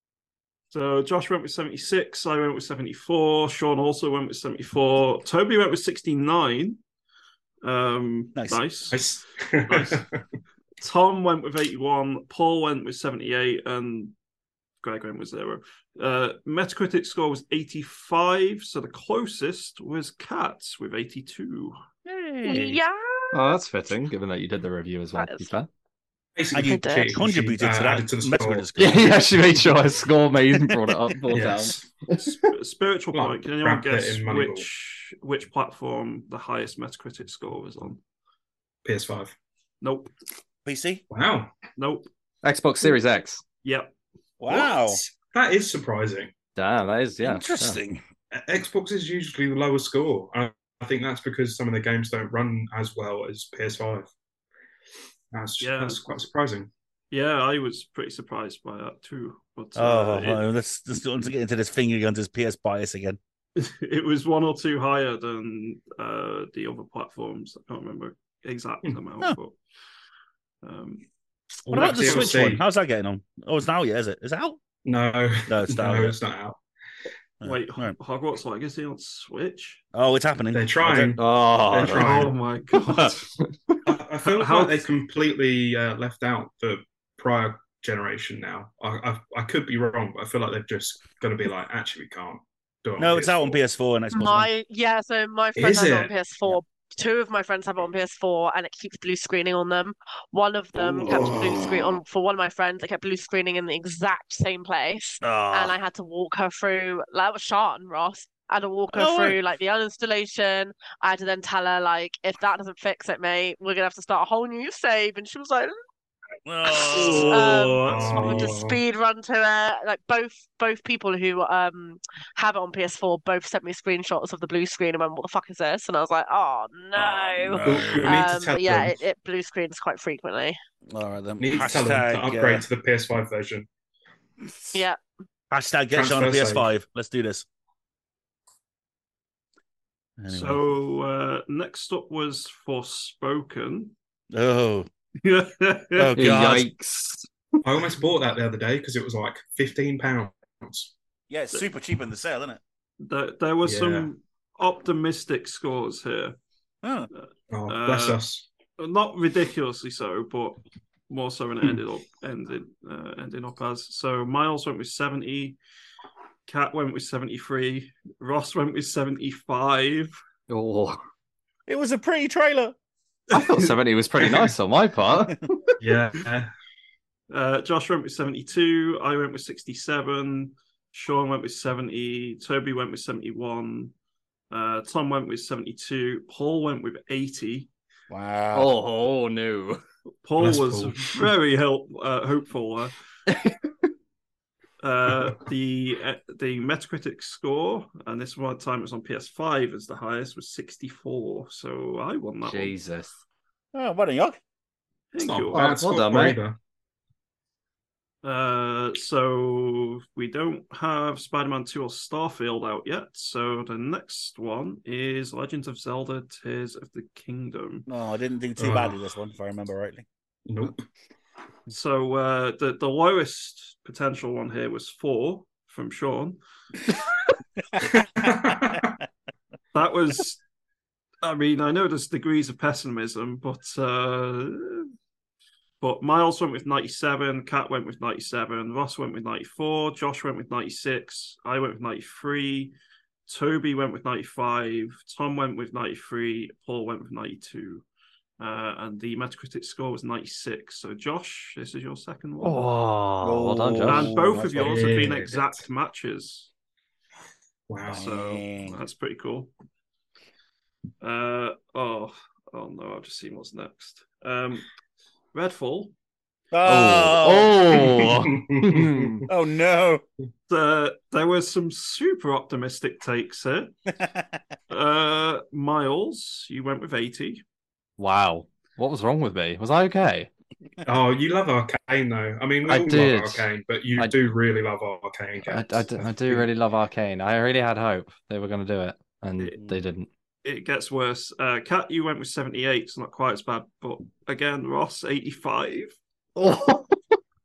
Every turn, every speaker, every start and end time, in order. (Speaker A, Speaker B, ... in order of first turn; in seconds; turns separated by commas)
Speaker A: 0.7-6.8, Speaker A: 7.6-9.0, Speaker B: 8.9-10.2, Speaker A: 9.7-10.0, Speaker A: 10.8-14.1, Speaker A: 14.8-21.8, Speaker C: 22.0-22.8, Speaker D: 22.4-23.5, Speaker E: 23.3-25.7, Speaker D: 25.1-25.5, Speaker B: 26.4-28.7, Speaker C: 26.5-29.6, Speaker D: 26.6-27.2, Speaker E: 28.8-32.3, Speaker B: 31.3-31.9, Speaker A: 32.2-38.0, Speaker B: 33.1-34.6, Speaker B: 38.8-39.3, Speaker A: 39.8-40.1, Speaker C: 40.6-41.0, Speaker B: 41.1-41.5, Speaker A: 41.8-42.1, Speaker E: 42.4-43.4, Speaker A: 43.6-43.9, Speaker C: 44.4-45.0, Speaker B: 45.3-46.3, Speaker E: 46.5-47.8, Speaker C: 47.2-48.0, Speaker B: 48.3-54.1, Speaker B: 55.3-56.7, Speaker A: 55.6-56.0, Speaker A: 57.1-60.4, Speaker C: 59.8-63.2, Speaker A: 63.5-69.5, Speaker A: 70.6-71.0, Speaker B: 71.7-72.6, Speaker A: 71.7-72.4, Speaker C: 71.7-74.6, Speaker B: 74.8-76.6, Speaker C: 75.5-76.2, Speaker C: 77.4-77.9, Speaker A: 77.4-79.8, Speaker C: 79.9-81.2, Speaker B: 80.5-82.3, Speaker E: 81.2-83.8, Speaker A: 81.8-83.3, Speaker B: 83.8-93.6, Speaker A: 84.4-84.8, Speaker C: 93.0-94.5, Speaker D: 94.1-115.7, Speaker B: 95.6-96.1, Speaker C: 101.0-101.7, Speaker B: 101.0-101.6, Speaker C: 105.2-105.8, Speaker C: 108.9-109.4, Speaker C: 116.5-117.8, Speaker D: 116.7-130.6, Speaker A: 116.9-118.5, Speaker B: 117.8-118.8, Speaker C: 127.1-128.3, Speaker B: 127.6-128.9, Speaker C: 130.9-132.7, Speaker B: 131.4-133.7, Speaker C: 135.5-137.4, Speaker B: 135.9-136.7, Speaker C: 140.2-140.7, Speaker A: 140.3-143.9, Speaker C: 144.3-144.9, Speaker A: 145.2-146.1, Speaker C: 145.9-146.7, Speaker E: 146.1-147.3, Speaker B: 147.6-150.9, Speaker C: 151.3-152.6, Speaker A: 153.0-156.3, Speaker B: 153.6-154.1, Speaker C: 156.8-157.1, Speaker A: 157.1-158.2, Speaker B: 157.5-158.4, Speaker A: 158.8-165.6, Speaker A: 166.5-170.2, Speaker E: 170.5-171.0, Speaker C: 171.7-172.7, Speaker E: 173.3-175.8, Speaker A: 173.3-173.7, Speaker B: 175.8-176.5, Speaker A: 177.3-183.9, Speaker A: 184.5-187.7, Speaker C: 188.1-188.7, Speaker E: 188.5-189.8, Speaker A: 190.2-192.9, Speaker B: 190.4-191.3, Speaker E: 193.3-193.7, Speaker A: 194.8-202.7, Speaker E: 202.4-203.1, Speaker C: 203.7-204.4, Speaker A: 205.1-205.7, Speaker B: 205.2-206.6, Speaker E: 205.5-206.4, Speaker A: 208.2-217.8, Speaker C: 217.9-220.0, Speaker B: 218.6-219.0, Speaker B: 220.5-220.8, Speaker A: 221.7-226.4, Speaker B: 227.8-229.0, Speaker A: 229.7-230.4, Speaker A: 231.2-234.9, Speaker A: 235.8-242.7, Speaker A: 243.3-247.8, Speaker A: 248.4-252.7, Speaker E: 252.4-254.1, Speaker C: 253.2-255.3, Speaker A: 253.8-256.5, Speaker B: 254.6-255.4, Speaker B: 257.7-258.1, Speaker C: 257.9-258.8, Speaker A: 257.9-259.5, Speaker A: 261.0-264.7, Speaker A: 265.3-265.9, Speaker C: 266.5-267.5, Speaker E: 266.6-269.3, Speaker B: 267.7-269.0, Speaker C: 269.3-270.0, Speaker A: 270.5-273.7, Speaker C: 273.9-274.4, Speaker A: 274.7-277.4, Speaker E: 278.0-280.3, Speaker B: 280.8-286.5, Speaker E: 282.6-284.1, Speaker E: 285.4-290.1, Speaker A: 290.4-296.0, Speaker E: 296.4-296.9